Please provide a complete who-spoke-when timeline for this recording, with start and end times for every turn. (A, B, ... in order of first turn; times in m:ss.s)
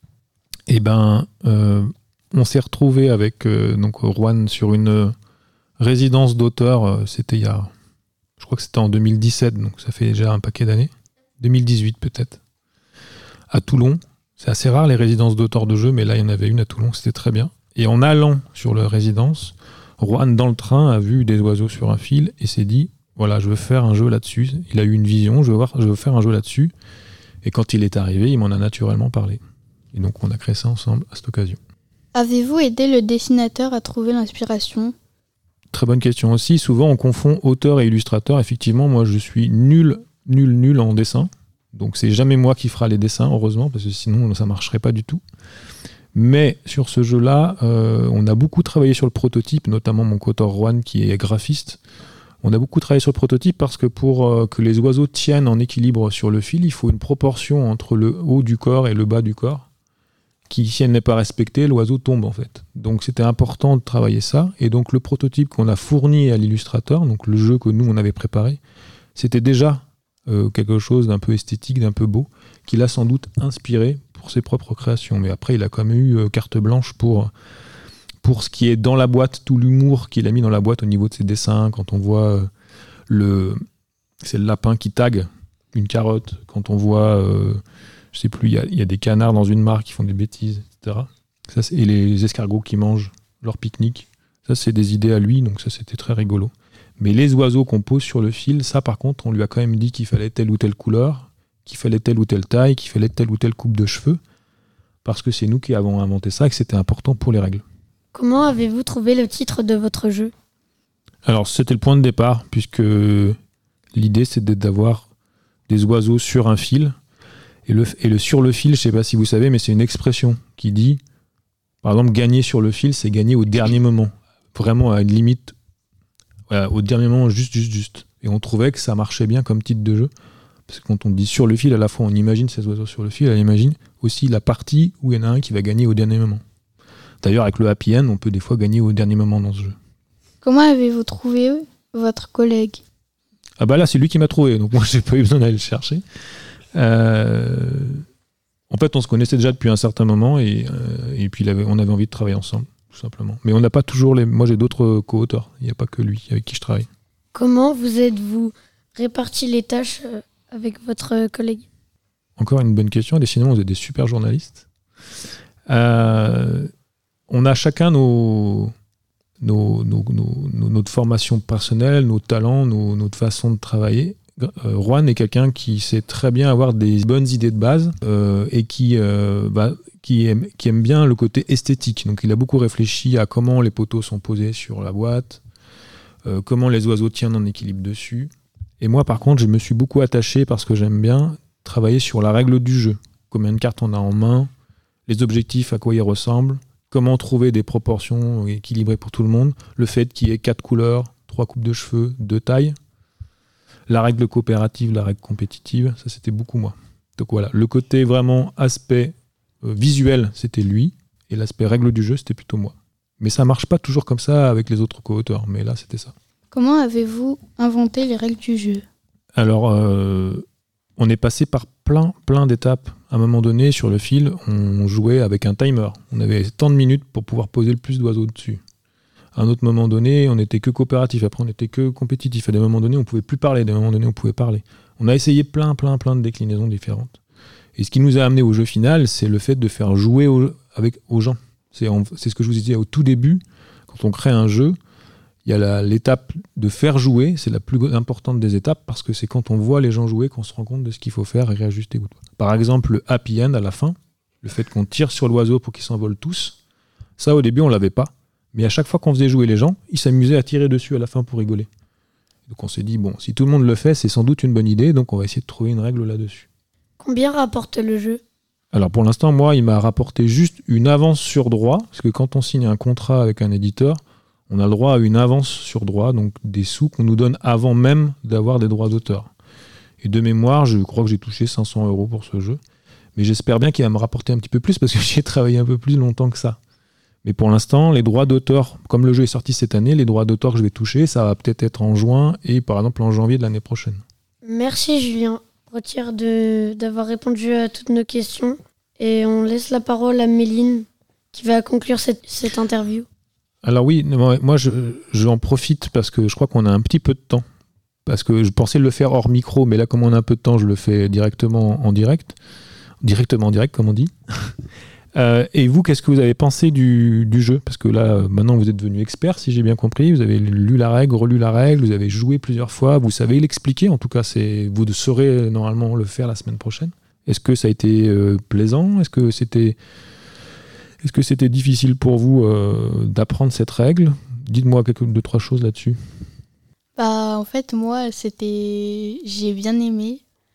0:00.7-0:05.1 A
0:05.8-0:07.7 A
0:08.4-0:12.4 A
0:13.5-0:26.7 A
0:27.4-0:29.4 A
0:29.9-0:31.6 A
0:32.1-0:34.9 B
0:35.7-0:45.2 A
0:46.1-0:51.8 A
0:52.4-0:59.7 A
1:00.5-1:08.6 A
1:09.2-1:17.3 A
1:18.2-1:22.5 A
1:23.1-1:23.6 A
1:24.2-1:27.6 A
1:28.1-1:44.2 A
1:45.0-1:47.6 A
1:48.1-1:50.3 C
1:51.2-1:53.4 A
1:53.9-1:55.1 A
1:55.7-1:57.0 A
1:57.6-2:01.0 A
2:01.8-2:05.5 A
2:06.5-2:10.1 A
2:10.7-2:16.4 A
2:17.2-2:19.8 A
2:20.4-2:22.8 B
2:23.6-2:26.0 A
2:26.7-2:28.0 A
2:28.7-2:36.9 A
2:37.3-2:41.6 C
2:42.4-2:44.6 A
2:45.7-2:46.7 A
2:47.3-2:48.7 A
2:49.4-3:05.4 A
3:06.2-3:14.5 A
3:15.1-3:22.8 A
3:23.9-3:36.1 A
3:36.5-3:38.8 B
3:39.3-3:40.4 A
3:41.0-3:48.6 A
3:49.3-3:57.2 A
3:57.8-4:04.8 A
4:05.4-4:16.6 A
4:17.2-4:21.7 A
4:22.5-4:26.5 A
4:27.0-4:28.2 C
4:28.7-4:39.3 A
4:40.0-4:42.6 A
4:43.2-4:46.6 A
4:47.2-4:54.0 A
4:54.4-5:03.1 C
5:03.6-5:07.4 A
5:08.0-5:12.4 A
5:13.0-5:14.6 A
5:15.1-5:29.8 A
5:31.0-5:36.0 A
5:37.0-5:40.2 B